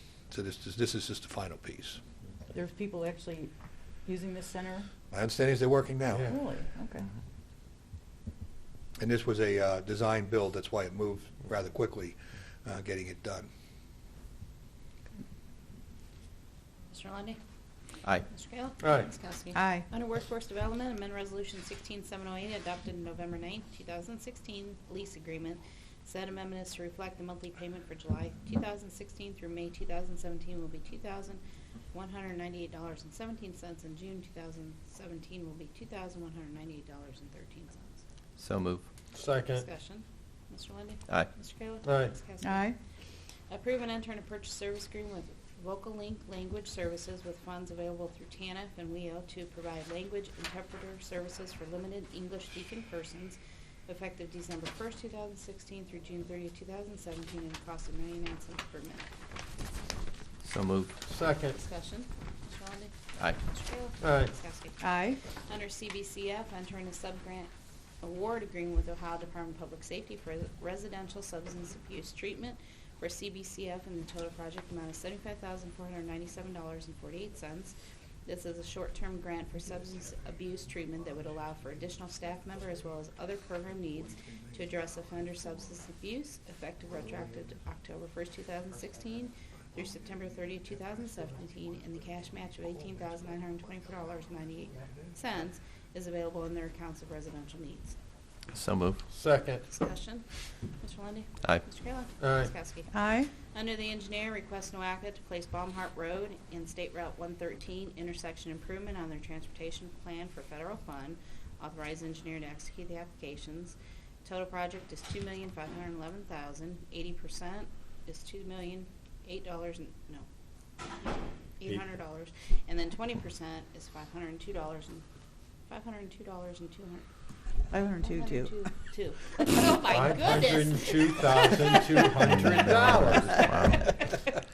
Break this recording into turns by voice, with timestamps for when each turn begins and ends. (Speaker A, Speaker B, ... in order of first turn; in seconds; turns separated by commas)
Speaker A: 0.3-2.0, Speaker B: 2.5-3.5, Speaker B: 4.0-4.9, Speaker A: 5.1-6.3, Speaker B: 6.3-7.0, Speaker A: 9.0-13.5, Speaker C: 16.9-17.4, Speaker C: 18.3-31.4, Speaker D: 18.8-19.1, Speaker B: 19.5-19.9, Speaker C: 31.9-38.0, Speaker E: 38.4-38.9, Speaker D: 39.1-39.7, Speaker C: 39.5-42.7, Speaker D: 41.9-42.2, Speaker B: 42.4-42.8, Speaker C: 43.5-59.1, Speaker E: 60.4-61.0, Speaker D: 61.1-61.6, Speaker C: 61.5-67.5, Speaker D: 64.0-64.3, Speaker B: 64.8-65.2, Speaker C: 68.0-77.8, Speaker C: 78.3-98.0, Speaker E: 98.5-99.0, Speaker D: 99.1-99.7, Speaker C: 99.7-100.2, Speaker C: 100.8-120.3, Speaker D: 102.2-102.5, Speaker B: 102.9-103.3, Speaker C: 121.0-125.0, Speaker C: 125.7-127.0, Speaker B: 127.7-128.6, Speaker C: 128.0-132.3, Speaker D: 129.9-133.8, Speaker E: 132.4-133.9